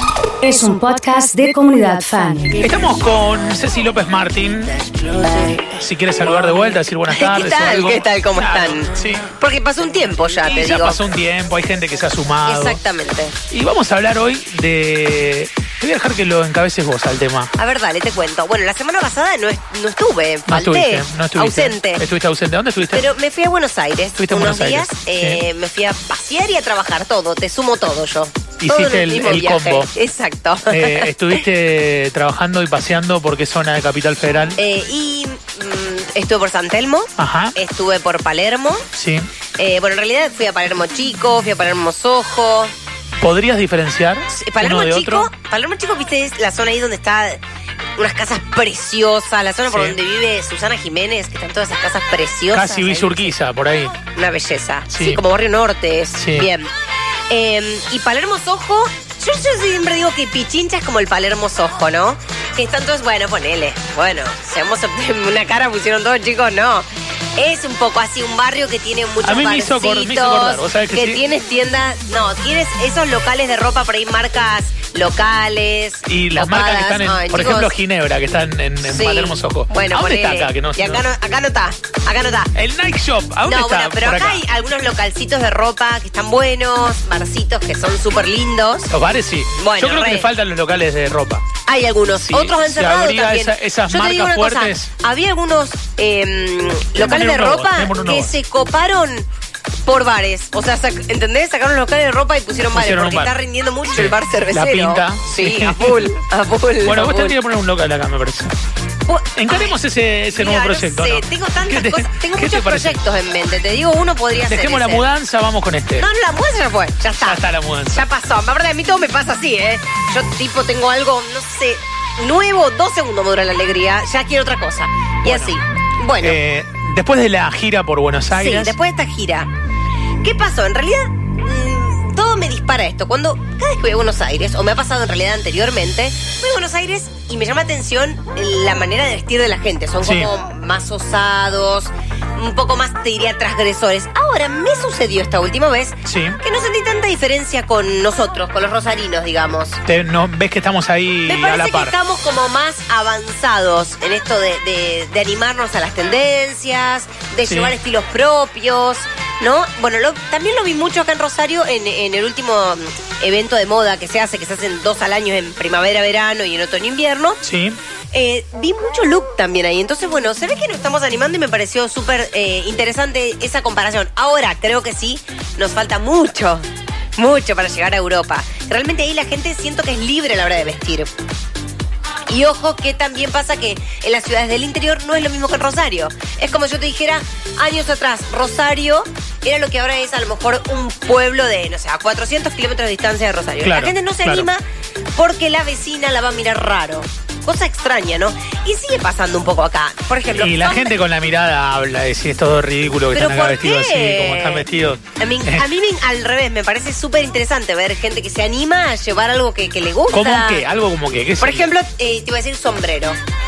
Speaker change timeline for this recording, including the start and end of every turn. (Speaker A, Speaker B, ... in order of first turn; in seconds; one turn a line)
Speaker A: 0.4-2.6
Speaker B: 2.6-4.8
Speaker B: 5.8-9.3
Speaker C: 7.1-11.0
Speaker B: 10.3-12.8
Speaker C: 12.4-13.4
Speaker B: 13.5-17.5
Speaker C: 17.6-22.0
Speaker B: 20.5-23.1
Speaker C: 22.9-31.4
Speaker B: 24.1-25.4
Speaker B: 28.6-29.9
Speaker B: 30.7-34.6
Speaker C: 34.5-38.8
Speaker B: 37.2-37.5
Speaker B: 39.0-39.3
Speaker C: 39.5-42.7
Speaker B: 43.2-45.3
Speaker C: 44.3-47.4
Speaker C: 48.0-53.3
Speaker B: 49.7-50.0
Speaker B: 52.5-54.0
Speaker C: 54.1-56.7
Speaker B: 54.9-55.2
Speaker B: 56.1-56.5
Speaker C: 57.3-77.8
Speaker B: 69.2-71.2
Speaker B: 76.0-81.0
Speaker C: 78.8-82.5
Speaker B: 82.5-84.4
Speaker C: 83.4-88.9
Speaker B: 88.9-91.4
Speaker C: 89.6-90.3
Speaker C: 91.7-99.3
Speaker B: 92.2-94.9
Speaker B: 97.0-98.3
Speaker C: 99.9-107.4
Speaker B: 102.7-103.4
Speaker B: 103.9-106.1
Speaker B: 106.8-108.5
Speaker C: 109.1-109.8
Speaker B: 109.3-113.0
Speaker C: 110.3-115.1
Speaker B: 114.4-116.1
Speaker C: 116.0-126.4
Speaker B: 117.1-118.1
Speaker B: 125.2-125.6
Speaker B: 126.2-128.8
Speaker C: 128.3-129.5
Speaker C: 130.2-149.8
Speaker B: 140.0-140.3
Speaker B: 146.0-146.4
Speaker B: 149.8-151.9
Speaker C: 151.2-167.4
Speaker B: 157.4-157.8
Speaker B: 167.4-167.8
Speaker C: 168.1-181.1
Speaker C: 182.3-194.6
Speaker B: 193.6-194.5
Speaker C: 195.2-201.0
Speaker B: 200.3-205.7
Speaker C: 203.1-210.7
Speaker B: 210.1-211.7
Speaker C: 211.4-213.2